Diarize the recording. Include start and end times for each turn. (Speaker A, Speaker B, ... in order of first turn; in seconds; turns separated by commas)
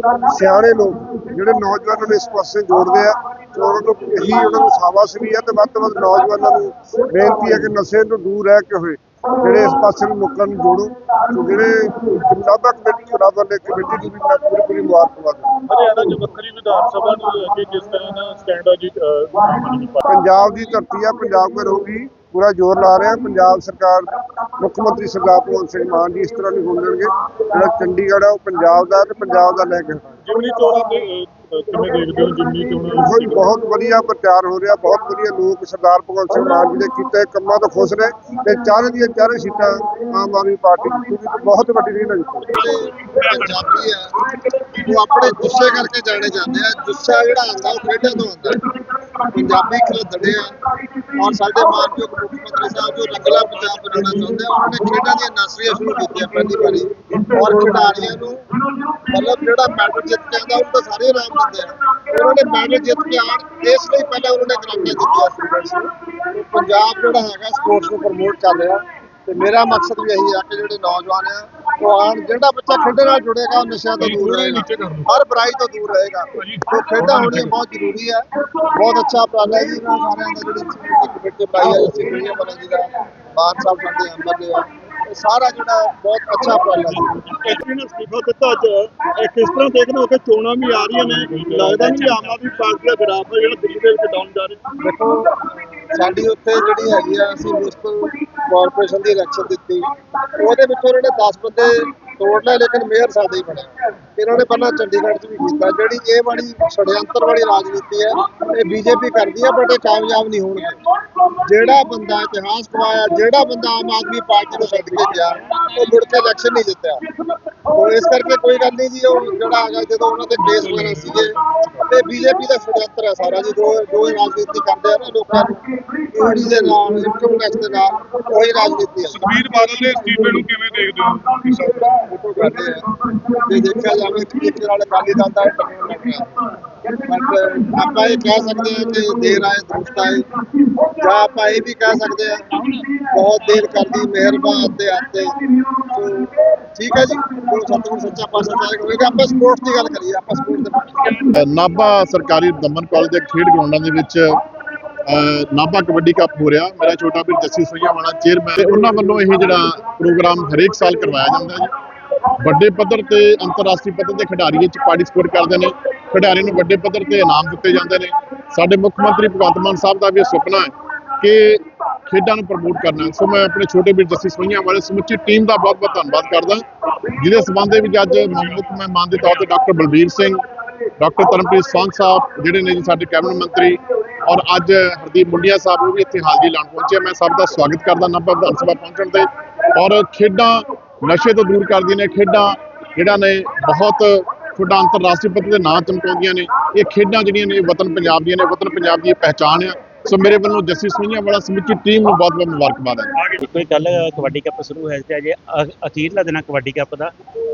Speaker A: 0.3-15.6, Speaker B: 15.7-20.1, Speaker A: 20.1-30.1, Speaker B: 30.2-33.4, Speaker A: 32.9-42.6, Speaker C: 42.5-44.1, Speaker B: 42.6-43.9, Speaker C: 44.7-48.6, Speaker C: 49.3-50.5, Speaker C: 51.1-58.5, Speaker C: 59.1-87.6, Speaker B: 74.0-75.1, Speaker B: 76.4-77.6, Speaker B: 86.9-94.7, Speaker C: 89.2-92.9, Speaker C: 94.8-110.8, Speaker C: 111.4-117.0, Speaker C: 117.7-121.4, Speaker B: 120.4-121.9, Speaker C: 121.9-125.6, Speaker C: 126.1-129.7, Speaker B: 129.1-131.9, Speaker C: 131.7-132.8, Speaker C: 133.4-136.4, Speaker C: 137.1-140.3, Speaker C: 140.8-142.5, Speaker C: 143.1-145.3, Speaker C: 145.9-151.3, Speaker D: 151.3-154.4, Speaker D: 155.1-161.7, Speaker D: 162.4-180.4, Speaker D: 181.0-203.2, Speaker E: 203.3-207.1